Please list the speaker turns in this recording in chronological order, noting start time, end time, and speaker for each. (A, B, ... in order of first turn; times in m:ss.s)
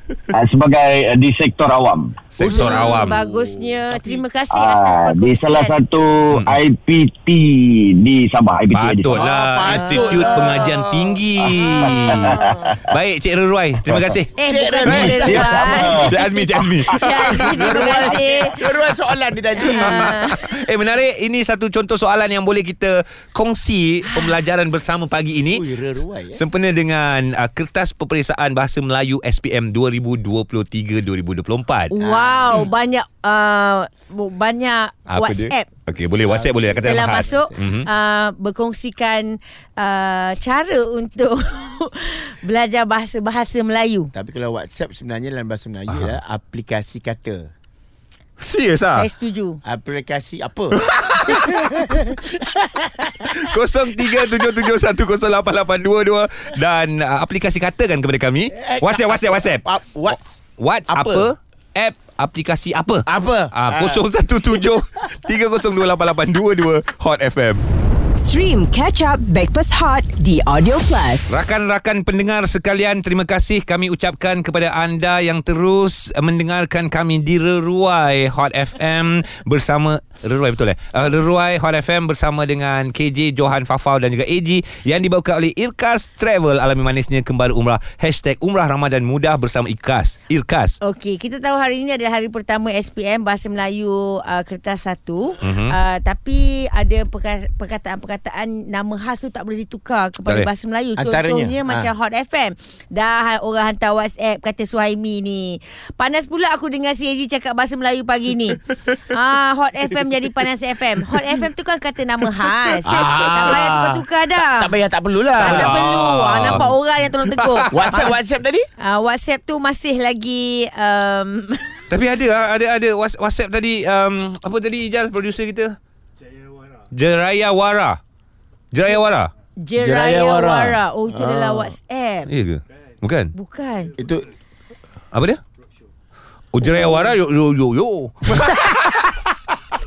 0:00.3-0:02.2 A
0:02.3-0:03.2 B
0:02.4-0:04.2 C
0:02.4-0:05.8 D
0:04.5-0:09.2 A
0:08.7-0:14.3 B
0:09.1-0:11.2 C
0:09.7-0:10.6 D
0:11.6-0:12.8 A
0:11.8-0:12.8 C
0:14.4-0:16.2 D
0:14.4-0:16.0 C
0:14.8-0:15.2 B
0:14.9-0:16.4 A
0:16.0-0:18.1 B
0:16.9-0:18.6 D
0:17.1-0:17.9 A
0:17.5-0:20.2 C
0:19.6-0:20.4 D
0:19.8-0:25.6 B
0:25.5-0:26.4 C
0:26.3-0:32.0 B
0:32.0-0:35.7 D
0:32.0-0:32.7 C
0:35.1-0:37.9 B
0:36.2-0:37.5 C
0:36.8-0:44.1 D
0:44.1-0:47.5 C
0:45.9-0:46.2 B
0:48.4-0:49.1 B
0:48.9-0:49.6 D
0:49.6-0:50.8 C
0:50.8-0:51.7 B
0:51.4-0:53.4 C
0:53.3-0:59.6 B
0:58.5-1:01.3 C
1:00.6-1:07.6 B
1:03.1-1:04.0 C
1:08.2-1:11.4 E
1:11.3-1:30.8 B
1:30.8-1:54.7 D
1:35.4-1:35.8 B
1:41.0-1:41.9 C
1:52.9-1:55.8 C
1:55.4-1:56.8 B
1:55.4-1:58.1 D
1:57.3-1:58.1 B
1:57.7-1:58.7 C
1:58.8-2:01.9 D
2:01.9-2:05.8 B
2:06.9-2:08.0 B
2:08.7-2:09.3 B
2:09.6-2:12.3 D
2:09.8-2:11.8 C
2:12.3-2:13.3 B
2:13.3-2:14.0 D
2:14.0-2:14.3 C
2:15.1-2:15.4 B
2:16.5-2:19.2 B